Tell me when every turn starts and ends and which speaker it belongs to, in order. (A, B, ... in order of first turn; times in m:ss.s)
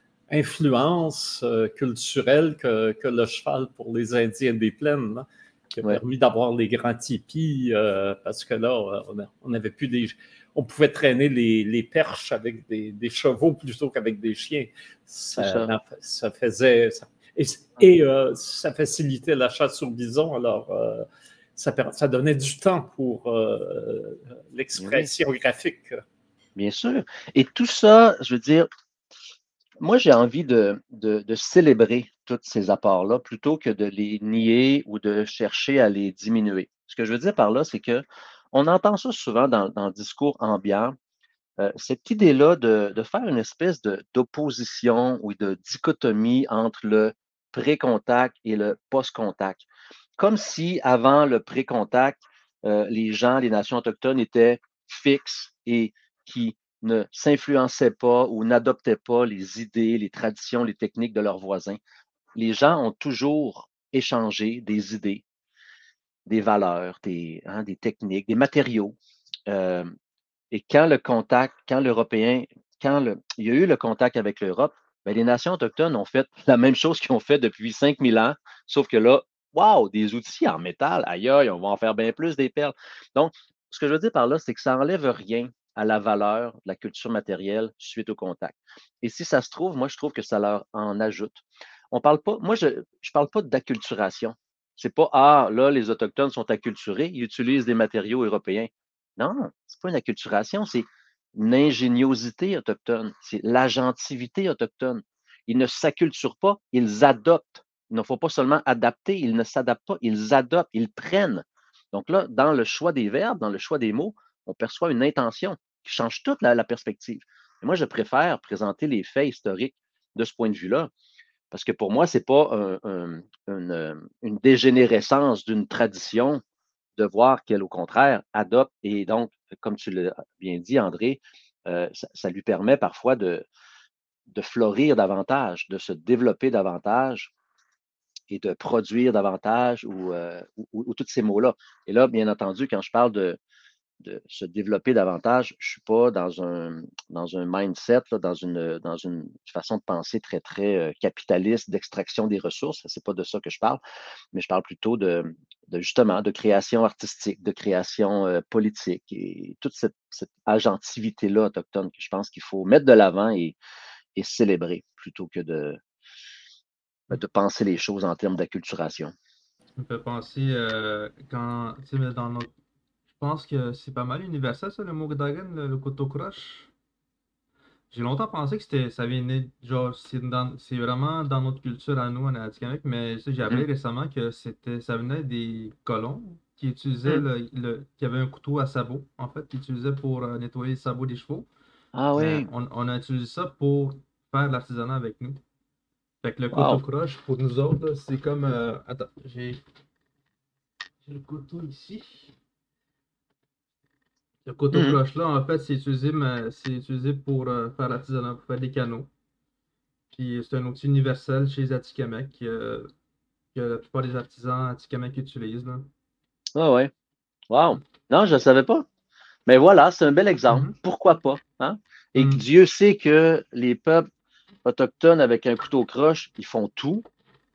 0:00.3-0:26.0 A
0:15.4-0:15.8 B
0:24.8-0:25.1 B
0:26.6-0:28.7 B
0:29.8-0:41.0 B
0:41.6-0:49.6 B
0:50.2-1:01.8 B
1:02.4-1:05.2 B
1:06.3-1:09.9 B
1:10.5-2:00.9 B
2:01.5-2:06.4 B
2:07.0-2:13.4 B
2:14.3-2:17.3 B
2:18.3-2:23.4 B
2:24.0-2:33.8 B
2:34.3-2:43.6 B
2:44.2-2:45.8 B
2:47.1-2:49.1 B
2:49.8-2:52.5 C
2:53.2-2:56.7 C
2:57.9-3:11.5 C
3:11.9-3:12.5 B
3:12.1-3:15.4 C
3:16.2-3:19.6 C
3:16.5-3:16.8 B
3:21.0-3:22.3 C
3:24.4-3:29.1 C
3:24.7-3:25.0 B
3:30.1-3:32.9 C
3:33.5-3:35.9 C
3:36.6-3:36.9 B
3:37.5-3:38.8 B
3:39.5-3:44.1 B
3:42.2-3:42.4 C
3:44.6-3:47.0 B